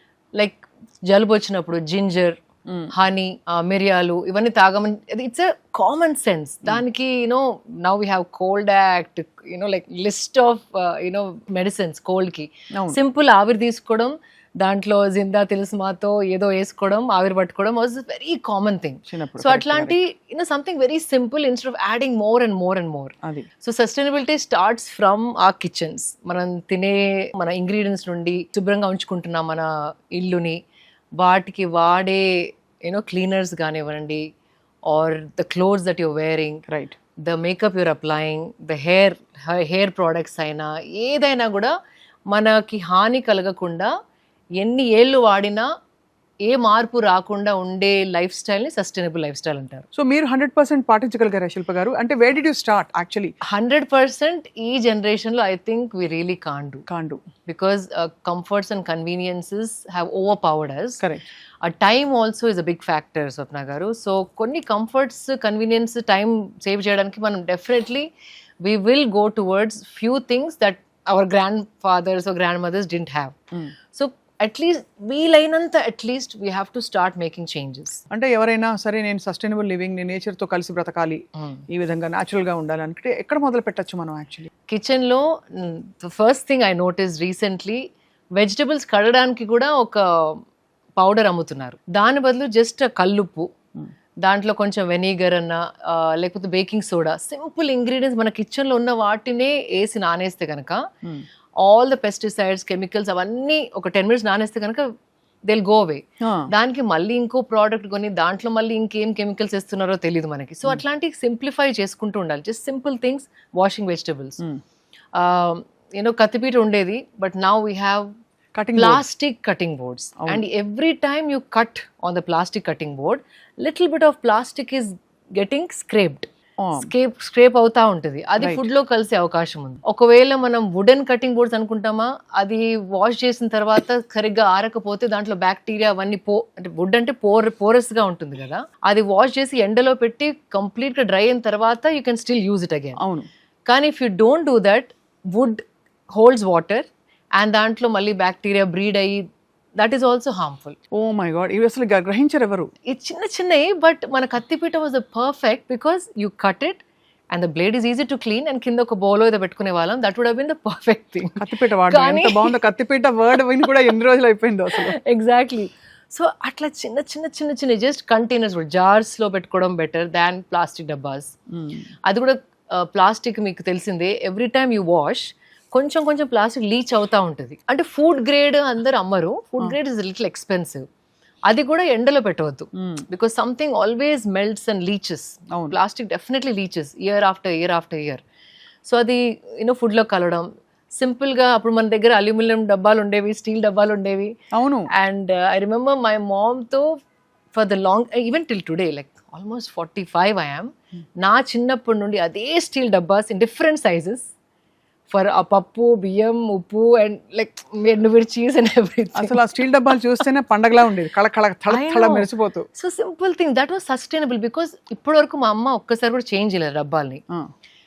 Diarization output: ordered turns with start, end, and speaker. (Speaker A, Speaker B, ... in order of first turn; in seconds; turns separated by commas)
Speaker A: 0.4-2.4, Speaker A: 2.9-30.6, Speaker B: 19.1-19.9, Speaker B: 23.2-23.5, Speaker A: 31.2-34.3, Speaker A: 34.9-36.6, Speaker B: 36.7-37.0, Speaker A: 37.2-41.7, Speaker A: 42.3-43.9, Speaker A: 44.6-45.7, Speaker A: 46.4-49.9, Speaker B: 49.9-53.3, Speaker A: 53.5-56.9, Speaker B: 56.9-57.2, Speaker A: 57.5-61.0, Speaker B: 61.0-61.3, Speaker A: 61.6-68.1, Speaker A: 68.6-73.4, Speaker A: 73.9-78.0, Speaker B: 78.1-84.5, Speaker A: 81.4-81.7, Speaker A: 84.7-87.8, Speaker A: 88.4-90.4, Speaker A: 91.0-93.5, Speaker A: 94.2-100.8, Speaker A: 101.6-104.9, Speaker A: 105.5-114.4, Speaker B: 106.2-106.5, Speaker A: 115.2-118.1, Speaker B: 118.5-119.0, Speaker A: 118.8-143.0, Speaker B: 126.6-126.9, Speaker B: 128.4-128.7, Speaker B: 143.0-143.3, Speaker A: 143.7-145.6, Speaker A: 146.1-149.3, Speaker A: 149.8-150.8, Speaker B: 150.9-152.7, Speaker A: 152.9-162.5, Speaker B: 161.4-165.0, Speaker A: 164.8-171.3, Speaker B: 171.5-171.9, Speaker A: 172.1-180.8, Speaker A: 181.5-188.2, Speaker B: 182.8-183.0, Speaker B: 185.5-185.8, Speaker A: 188.8-194.4, Speaker B: 194.5-194.9, Speaker A: 194.9-197.0, Speaker A: 197.5-204.3, Speaker A: 205.1-209.4, Speaker B: 209.2-212.7, Speaker A: 211.7-217.2